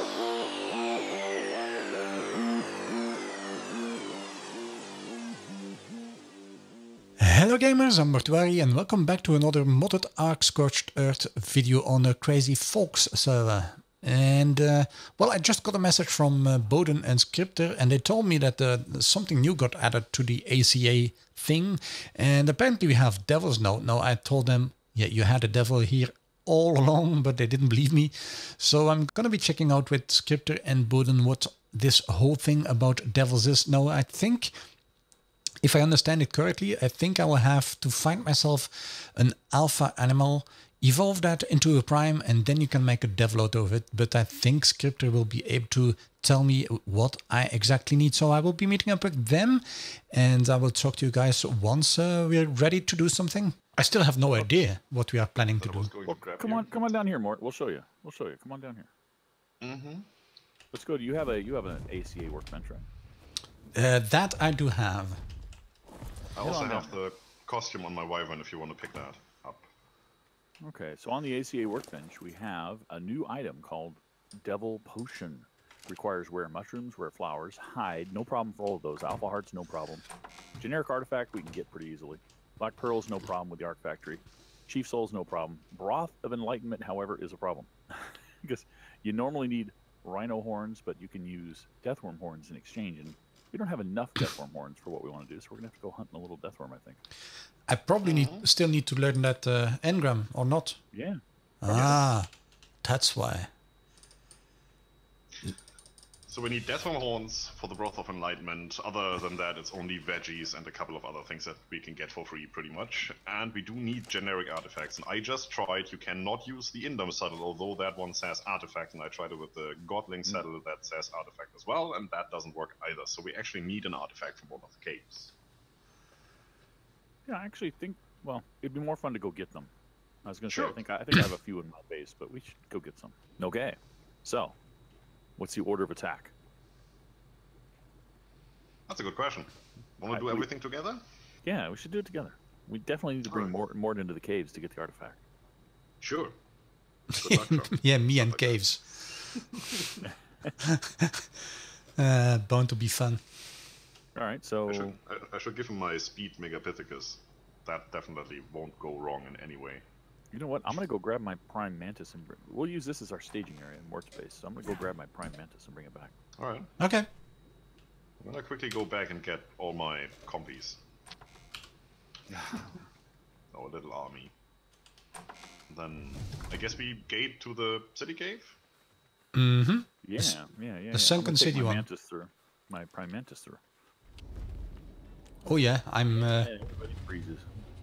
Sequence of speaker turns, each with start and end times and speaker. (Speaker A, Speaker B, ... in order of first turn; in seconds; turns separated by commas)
Speaker A: 7.2-34.5, Speaker A: 35.6-55.9, Speaker B: 55.6-56.9, Speaker C: 56.0-58.9, Speaker B: 59.6-60.0, Speaker C: 60.7-62.9, Speaker A: 63.7-65.2, Speaker B: 66.3-69.7, Speaker C: 66.4-67.0, Speaker C: 70.6-80.0, Speaker C: 80.6-97.0, Speaker A: 97.7-100.8, Speaker B: 98.0-98.5, Speaker C: 100.9-101.2, Speaker A: 101.6-102.3, Speaker B: 101.7-102.1, Speaker A: 102.8-103.5, Speaker B: 106.3-125.3, Speaker C: 127.2-129.7, Speaker C: 130.2-134.6, Speaker B: 130.5-130.8, Speaker C: 135.4-136.3, Speaker B: 138.9-141.0, Speaker C: 140.1-140.5, Speaker C: 141.4-145.2, Speaker B: 143.3-143.5, Speaker B: 146.0-146.3, Speaker B: 147.1-148.6, Speaker A: 147.2-149.1, Speaker B: 149.4-150.0, Speaker C: 150.0-150.5, Speaker A: 150.7-151.2, Speaker A: 152.0-153.2, Speaker C: 154.1-154.9, Speaker B: 154.7-159.8, Speaker C: 160.3-166.1, Speaker B: 166.4-166.7, Speaker A: 166.8-167.1, Speaker B: 168.2-170.8, Speaker C: 172.3-172.8, Speaker B: 173.5-174.3, Speaker B: 175.7-178.6, Speaker A: 179.3-180.4, Speaker C: 180.0-183.6, Speaker A: 180.9-181.8, Speaker A: 185.4-186.5, Speaker C: 186.1-187.5